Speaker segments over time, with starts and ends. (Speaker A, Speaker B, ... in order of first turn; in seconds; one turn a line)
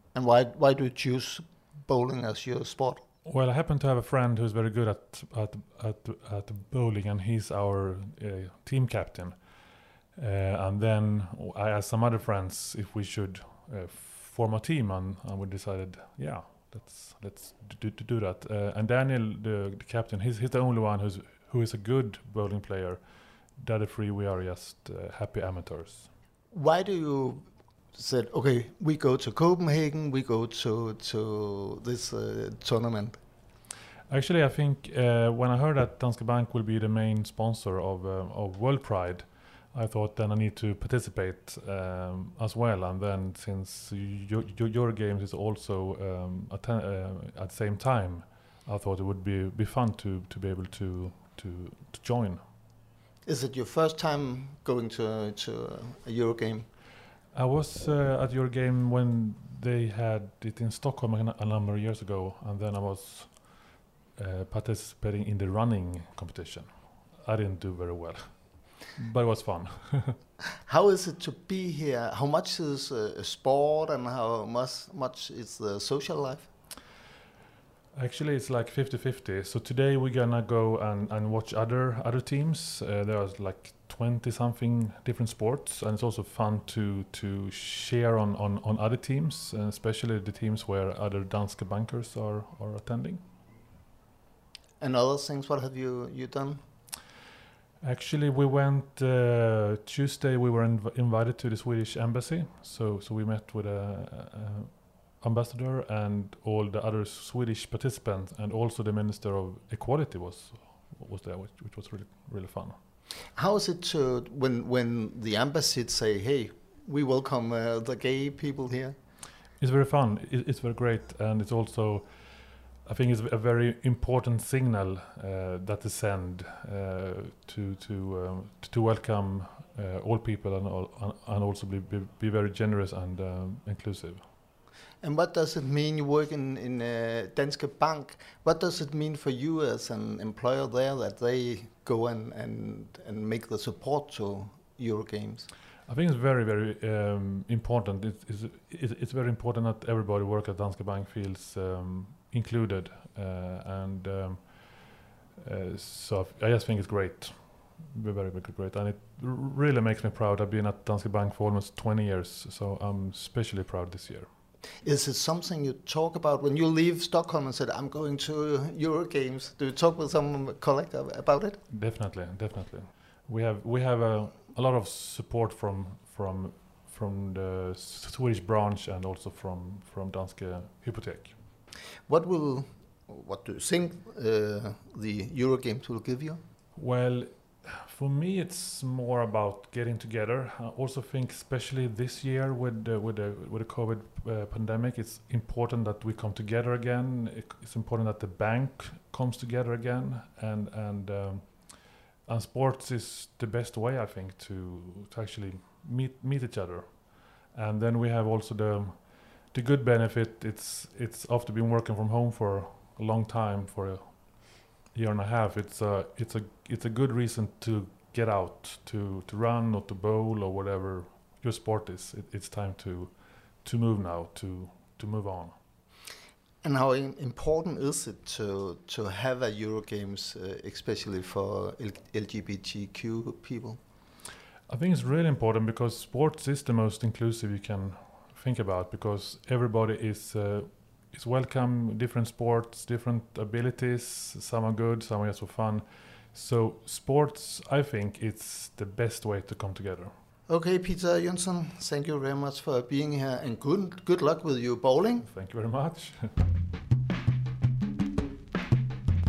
Speaker A: 0.1-3.0
Speaker B: 3.2-9.4
Speaker B: 10.1-26.1
Speaker A: 26.5-33.2
Speaker B: 34.1-52.4
Speaker A: 53.2-56.7
Speaker B: 57.3-70.2
Speaker A: 70.7-76.5
Speaker B: 77.9-93.2
Speaker A: 94.8-96.6
Speaker B: 97.8-112.8
Speaker A: 113.3-119.0
Speaker B: 119.6-134.2
Speaker A: 135.0-145.5
Speaker B: 145.9-164.3
Speaker A: 164.8-171.6
Speaker B: 171.7-181.3
Speaker A: 182.1-186.4
Speaker B: 186.8-225.6
Speaker A: 226.6-233.8
Speaker B: 234.7-250.1
Speaker A: 250.5-255.3
Speaker B: 255.2-256.3